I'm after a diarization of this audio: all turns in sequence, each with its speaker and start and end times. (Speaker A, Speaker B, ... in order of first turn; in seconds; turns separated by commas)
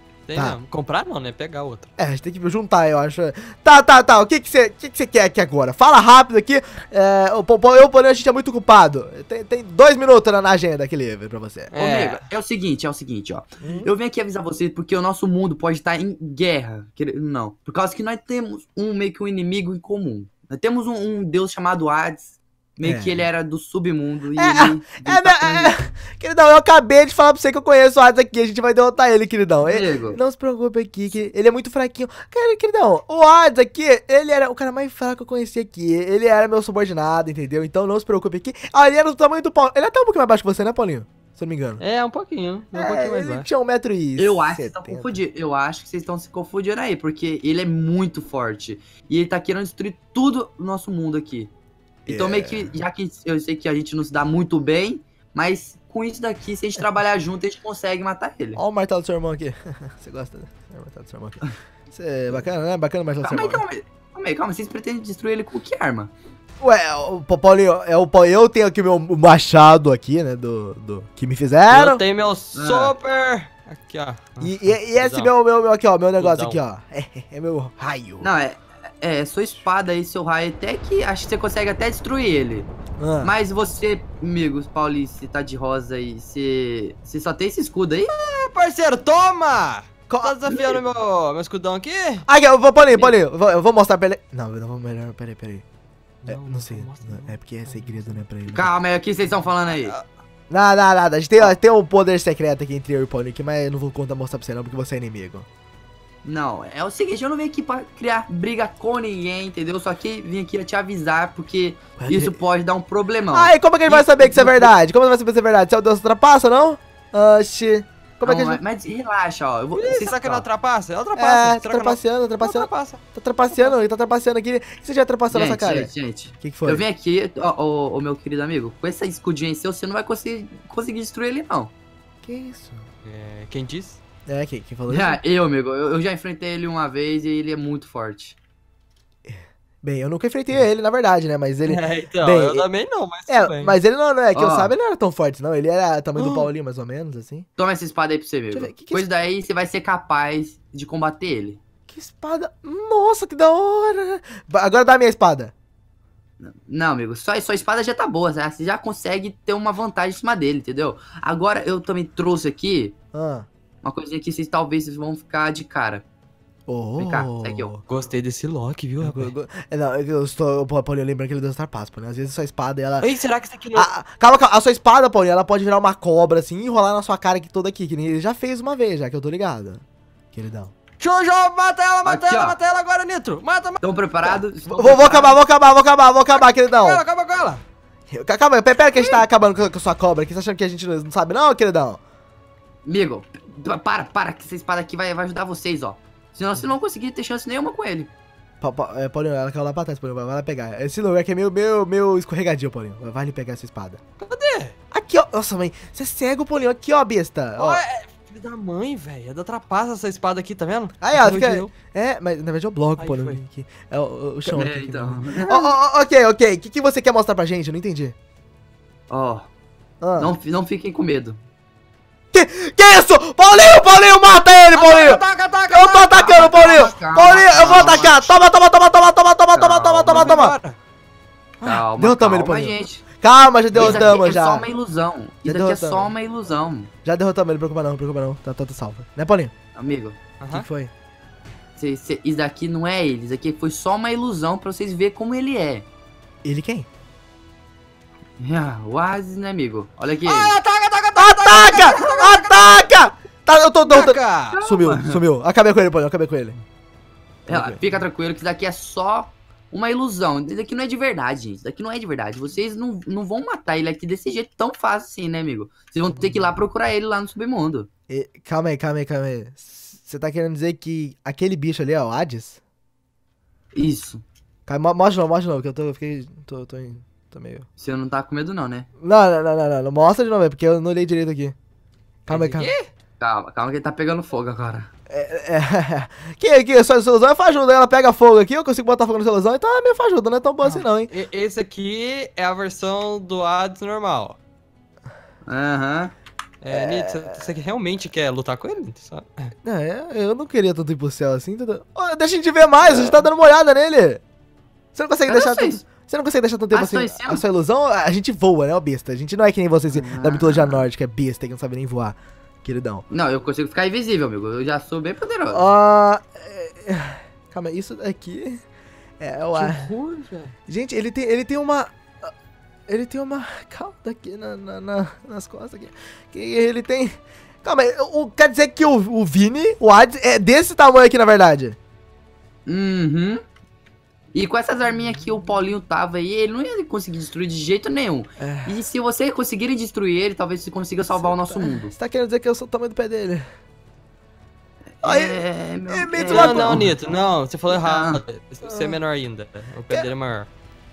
Speaker A: 0.3-1.9, Speaker B: 2.0-11.7, Speaker A: 11.7-12.2, Speaker C: 11.8-25.7, Speaker B: 13.6-13.9, Speaker B: 22.8-23.2, Speaker B: 24.4-41.8, Speaker C: 29.6-30.2, Speaker A: 41.8-43.5, Speaker B: 42.7-45.2, Speaker C: 44.2-51.5, Speaker B: 52.0-52.7, Speaker C: 52.1-58.6, Speaker B: 58.5-63.6, Speaker C: 63.2-66.1, Speaker B: 66.6-72.0, Speaker A: 71.7-75.3, Speaker C: 72.5-72.9, Speaker B: 74.4-78.3, Speaker A: 76.2-76.6, Speaker C: 78.2-82.7, Speaker B: 83.0-83.3, Speaker C: 83.2-88.1, Speaker A: 88.1-92.2, Speaker B: 90.1-90.8, Speaker B: 92.2-95.6, Speaker A: 96.2-98.2, Speaker B: 96.3-98.7, Speaker C: 98.5-99.9, Speaker A: 99.7-100.0, Speaker B: 100.5-105.5, Speaker C: 106.2-114.7, Speaker B: 112.0-112.3, Speaker B: 113.3-118.6, Speaker C: 118.2-120.5, Speaker A: 119.7-123.7, Speaker B: 121.2-125.9, Speaker C: 125.3-131.7, Speaker B: 126.4-126.8, Speaker B: 132.2-132.9, Speaker A: 133.0-134.0, Speaker B: 134.3-135.2, Speaker C: 134.9-138.3, Speaker B: 139.3-142.7, Speaker A: 141.7-143.8, Speaker B: 143.3-147.5, Speaker C: 144.3-144.7, Speaker A: 146.2-146.5, Speaker C: 147.6-151.6, Speaker B: 148.5-149.0, Speaker B: 151.9-155.5, Speaker C: 156.4-162.9, Speaker B: 163.1-163.5, Speaker C: 163.8-166.0, Speaker B: 166.7-167.8, Speaker C: 167.0-167.7, Speaker A: 167.9-169.3, Speaker B: 169.0-173.1, Speaker A: 173.0-173.9, Speaker B: 173.7-180.7, Speaker A: 181.0-183.8, Speaker C: 182.0-182.6, Speaker C: 183.8-185.4, Speaker B: 184.7-187.0, Speaker A: 186.4-187.6, Speaker B: 188.1-192.0, Speaker A: 188.9-189.2, Speaker C: 192.8-198.1, Speaker B: 198.6-204.0, Speaker A: 204.2-204.7, Speaker B: 204.9-207.8, Speaker A: 207.6-211.7, Speaker B: 211.0-218.1, Speaker A: 213.0-213.4, Speaker C: 214.4-215.7, Speaker C: 219.1-219.5, Speaker B: 220.0-220.3, Speaker C: 220.2-221.4, Speaker B: 222.3-230.6, Speaker A: 224.7-226.3, Speaker C: 226.1-228.3, Speaker C: 229.5-230.4, Speaker A: 230.1-230.8, Speaker B: 231.6-234.7, Speaker C: 231.6-233.0, Speaker C: 233.7-236.9, Speaker B: 235.4-236.1, Speaker B: 237.0-239.5, Speaker C: 239.7-240.2, Speaker A: 240.4-240.7, Speaker B: 240.5-240.9, Speaker C: 241.8-245.8, Speaker B: 246.4-246.9, Speaker C: 248.4-250.6, Speaker A: 250.2-252.9, Speaker B: 251.2-256.6, Speaker A: 253.8-254.6, Speaker C: 254.5-255.2, Speaker C: 257.5-267.9, Speaker B: 257.5-257.8, Speaker B: 268.1-272.6, Speaker C: 273.7-274.2, Speaker B: 274.7-277.7, Speaker C: 277.8-278.9, Speaker B: 279.0-281.6, Speaker B: 282.3-282.7, Speaker A: 282.3-282.9, Speaker C: 283.2-284.9, Speaker B: 285.1-291.1, Speaker A: 290.6-294.4, Speaker C: 295.4-296.1, Speaker A: 296.6-299.5, Speaker B: 296.7-297.3, Speaker B: 299.6-304.2, Speaker B: 304.9-313.1, Speaker C: 305.3-305.8, Speaker C: 306.7-307.4, Speaker C: 309.9-310.8, Speaker C: 313.1-315.7, Speaker B: 315.5-318.6, Speaker B: 319.2-319.9, Speaker A: 319.5-320.5, Speaker B: 320.7-322.3, Speaker B: 322.9-331.8, Speaker C: 332.6-333.4, Speaker C: 334.3-341.9, Speaker B: 338.4-338.8, Speaker B: 341.1-343.4, Speaker C: 345.0-346.9, Speaker B: 345.0-346.9, Speaker A: 346.2-350.5, Speaker C: 347.7-348.2, Speaker B: 348.6-349.0